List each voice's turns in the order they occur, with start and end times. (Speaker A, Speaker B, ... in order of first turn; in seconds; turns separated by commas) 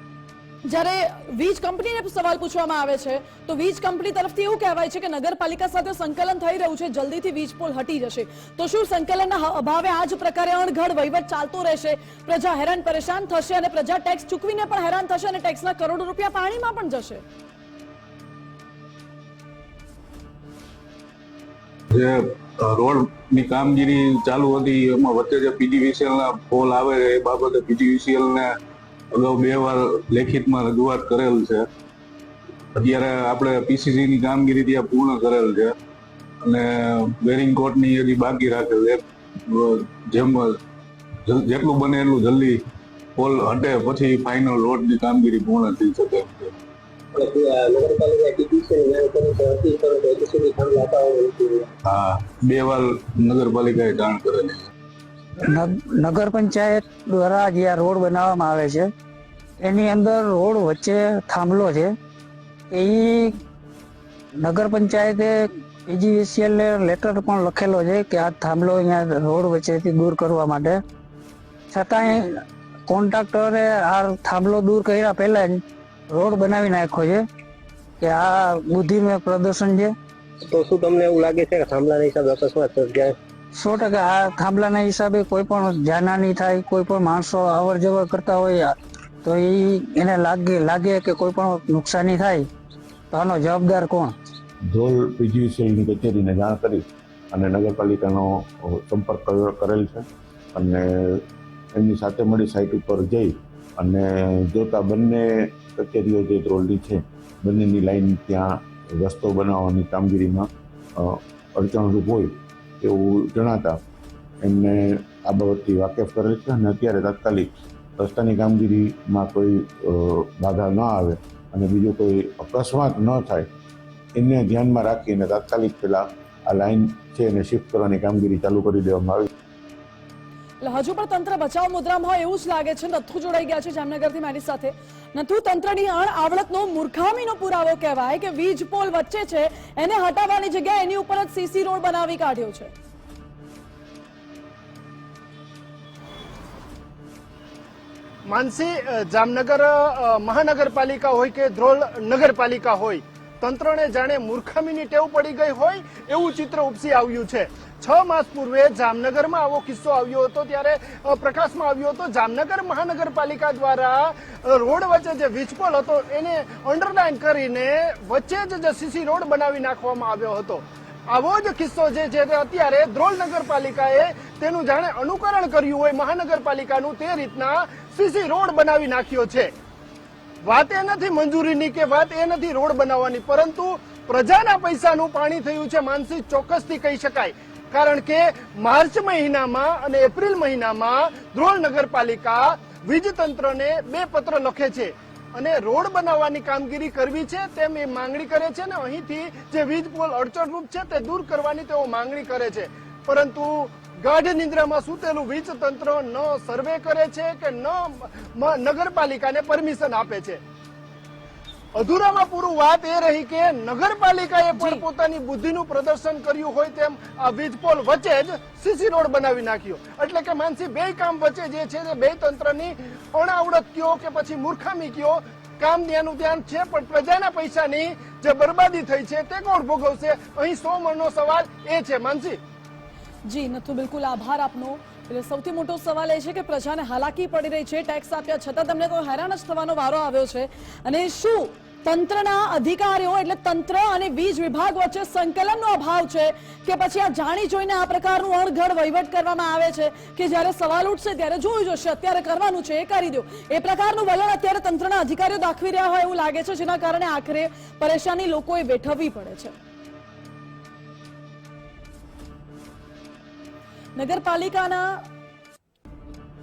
Speaker A: 0.7-17.2, Speaker B: 21.9-28.5, Speaker B: 29.1-31.7, Speaker B: 32.8-35.7, Speaker B: 36.4-40.6, Speaker B: 41.3-42.6, Speaker B: 43.2-46.5, Speaker C: 47.1-51.7, Speaker B: 51.9-54.7, Speaker D: 55.5-58.9, Speaker D: 59.6-61.9, Speaker D: 62.7-63.4, Speaker D: 64.4-65.3, Speaker D: 65.9-70.8, Speaker D: 71.7-77.2, Speaker D: 78.0-80.0, Speaker C: 80.4-83.2, Speaker D: 83.6-92.5, Speaker D: 93.1-94.1, Speaker E: 94.7-113.8, Speaker E: 114.4-123.5, Speaker E: 124.2-129.3, Speaker A: 130.6-142.7, Speaker F: 148.3-179.5, Speaker F: 180.4-210.4, Speaker F: 211.8-232.4, Speaker A: 214.5-214.8, Speaker A: 233.3-259.5, Speaker A: 264.0-264.9